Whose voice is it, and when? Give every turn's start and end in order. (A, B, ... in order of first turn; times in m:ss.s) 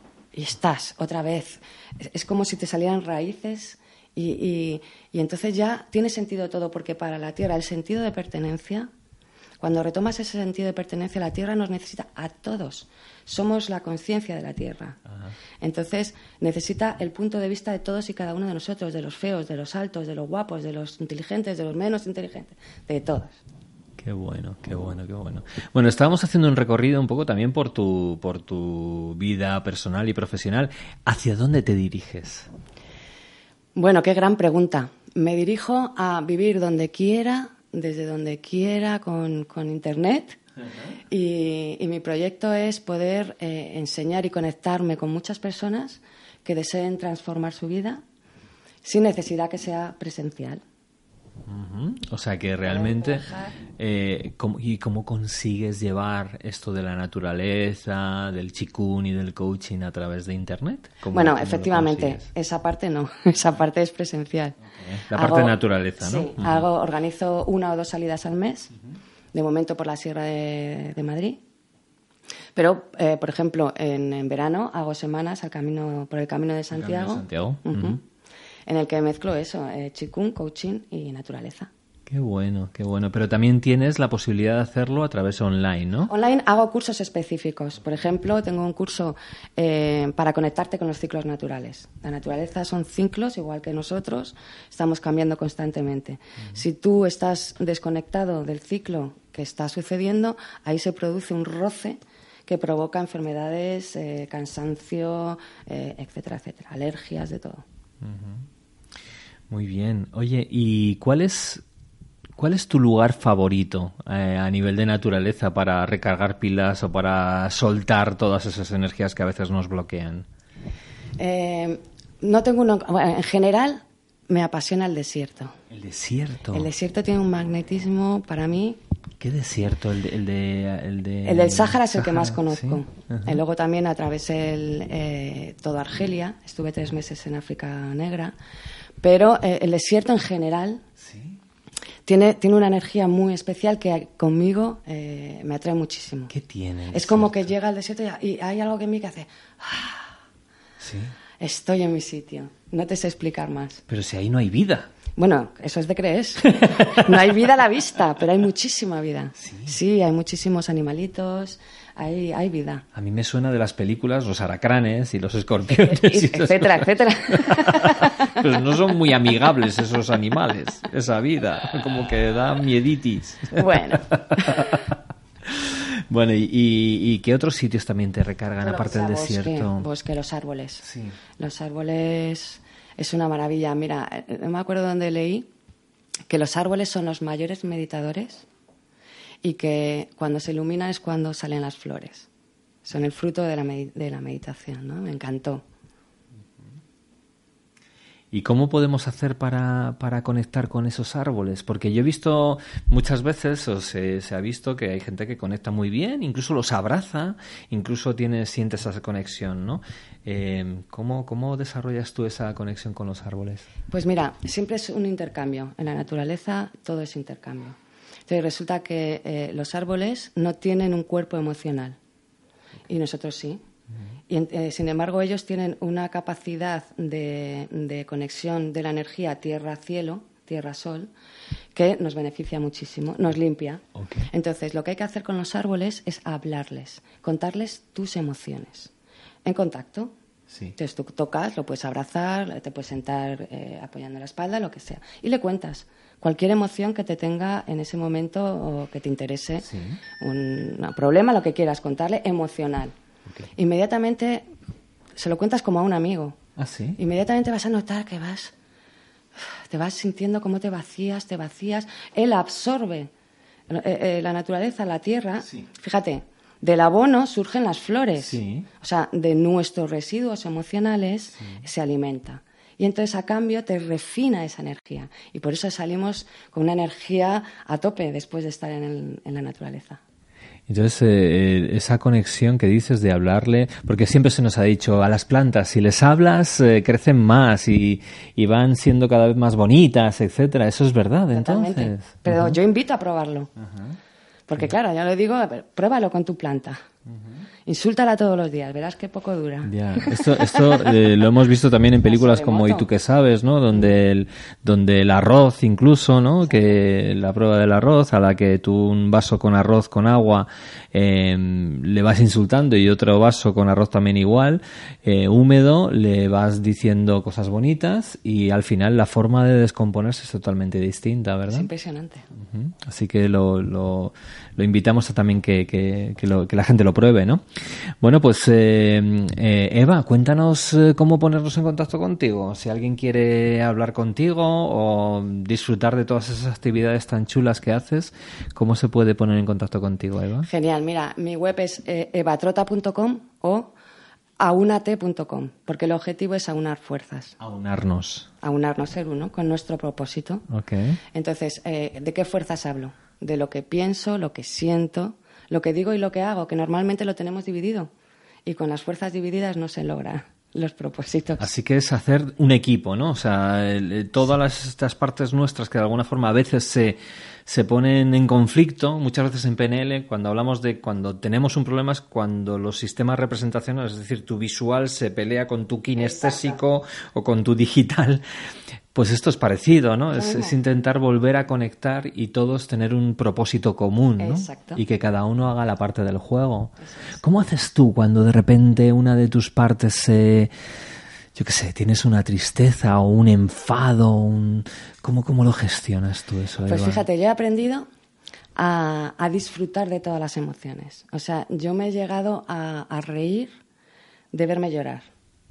0:00.3-0:08.9 A
0:09.6-0:15.0 A
0:15.6-0:23.4 A
0:24.0-0:32.5 B
0:33.8-0:40.4 A
0:41.1-0:48.0 A
0:48.8-0:50.6 A
0:51.5-1:02.3 B
0:52.7-0:53.6 A
1:01.1-1:04.6 A
1:04.7-1:06.6 B
1:05.1-1:08.7 A
1:09.3-1:11.4 A
1:12.6-1:18.0 A
1:16.7-1:18.0 B
1:18.7-1:21.7 A
1:22.1-1:26.1 B
1:26.1-1:47.6 A
1:48.0-1:48.5 B
1:49.5-1:51.6 B
1:52.4-2:00.3 B
2:01.2-2:05.5 A
2:05.7-2:06.7 B
2:06.5-2:08.8 A
2:09.2-2:13.4 B
2:11.2-2:18.3 A
2:19.0-2:20.8 A
2:21.0-2:21.4 B
2:22.1-2:26.3 A
2:26.3-2:27.5 B
2:26.9-2:30.1 A
2:30.8-2:31.2 B
2:31.4-2:33.8 A
2:33.9-2:34.9 B
2:35.2-2:42.8 A
2:36.6-2:37.2 B
2:39.4-2:39.8 B
2:43.0-2:59.9 B
2:45.7-2:48.5 A
2:53.6-2:54.8 A
2:58.6-3:00.8 A
3:00.8-3:01.2 B
3:01.4-3:05.5 A
3:06.3-3:08.5 A
3:09.4-3:12.3 A
3:12.8-3:15.6 A
3:18.3-3:33.7 B
3:33.9-3:37.8 A
3:38.3-3:42.0 A
3:42.9-3:43.6 A
3:44.3-3:51.1 A
3:51.8-3:58.9 A
3:54.0-3:54.3 B
3:59.5-4:00.1 A
4:00.5-4:00.8 B
4:00.8-4:09.7 A
4:09.7-4:10.0 B
4:10.2-4:12.9 A
4:13.5-4:14.5 A
4:15.2-4:16.4 A
4:16.6-4:17.0 B
4:17.0-4:18.5 A
4:19.4-4:23.1 A
4:23.7-4:40.0 A
4:28.2-4:28.7 B
4:40.7-4:52.6 B
4:51.3-4:53.5 A
4:53.6-4:54.0 B
4:54.5-4:56.8 A
4:57.1-4:57.4 B
4:57.7-5:01.0 A
4:59.7-5:21.7 B
5:02.0-5:02.9 A
5:21.5-5:22.3 A
5:22.4-5:27.4 B
5:28.0-5:40.5 B
5:40.4-5:43.7 A
5:44.4-5:47.4 A
5:47.4-5:48.3 B
5:48.4-5:50.4 A
5:50.5-5:51.0 B
5:51.1-5:57.9 A
5:58.4-6:01.5 A
6:01.4-6:18.2 B
6:16.0-6:16.6 A
6:18.9-6:30.5 B
6:20.2-6:20.6 A
6:24.2-6:24.8 A
6:26.8-6:27.2 A
6:31.4-6:37.0 B
6:36.7-6:37.9 A
6:38.6-6:43.5 A
6:44.3-6:45.1 A